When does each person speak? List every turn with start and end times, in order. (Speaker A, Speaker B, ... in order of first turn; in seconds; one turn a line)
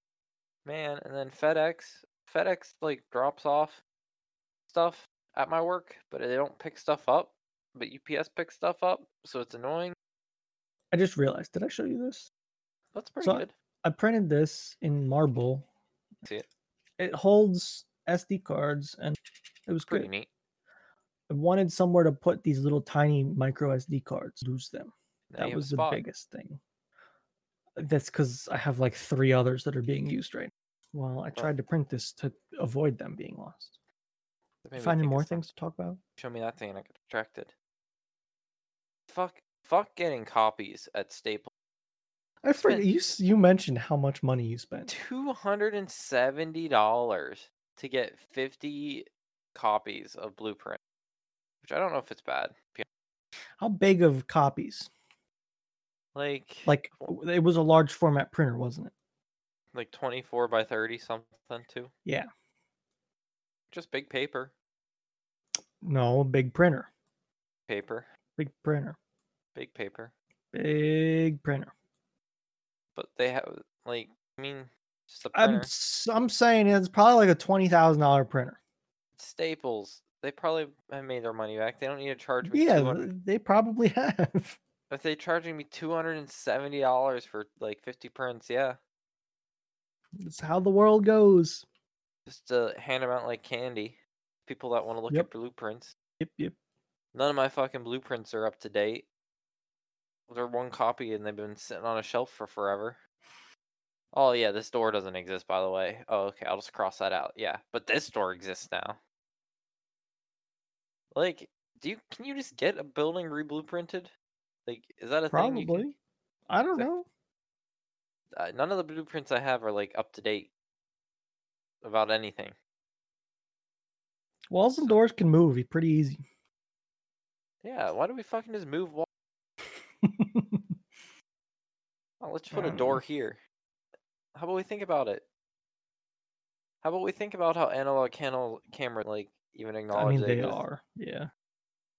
Speaker A: 0.6-3.8
Speaker A: 4.7-9.9
Speaker B: 10.9-12.3
Speaker A: 12.9-13.5
Speaker B: 13.2-15.7
Speaker B: 17.0-20.1
Speaker A: 19.9-20.3
Speaker B: 21.3-26.6
Speaker A: 25.3-26.0
Speaker B: 27.8-33.7
Speaker A: 34.6-35.5
Speaker B: 34.8-36.0
Speaker A: 36.2-37.5
Speaker A: 39.1-41.5
Speaker B: 42.4-44.9
Speaker A: 42.6-42.9
Speaker A: 44.9-50.8
Speaker A: 51.6-52.9
Speaker B: 53.6-54.9
Speaker A: 56.1-57.1
Speaker B: 56.6-58.9
Speaker A: 59.7-61.9
Speaker A: 63.7-64.5
Speaker B: 65.8-66.9
Speaker A: 67.7-68.1
Speaker B: 68.4-69.0
Speaker A: 69.5-70.1
Speaker B: 70.5-71.7
Speaker A: 73.0-75.7
Speaker B: 75.3-78.6
Speaker A: 79.2-83.1
Speaker B: 82.5-84.6
Speaker A: 84.9-88.8
Speaker B: 90.2-91.6
Speaker A: 92.2-95.9
Speaker B: 96.2-96.5
Speaker A: 97.1-99.0
Speaker A: 100.3-103.0
Speaker A: 104.1-109.0
Speaker A: 111.1-114.1
Speaker A: 114.7-115.8
Speaker B: 115.3-116.0
Speaker B: 116.5-117.0
Speaker A: 118.3-120.5
Speaker A: 121.8-122.5
Speaker B: 124.5-126.2
Speaker A: 127.6-129.1
Speaker B: 130.0-130.7
Speaker A: 132.2-133.4
Speaker B: 132.5-133.0
Speaker A: 134.3-135.2
Speaker A: 136.8-140.6
Speaker B: 139.9-141.3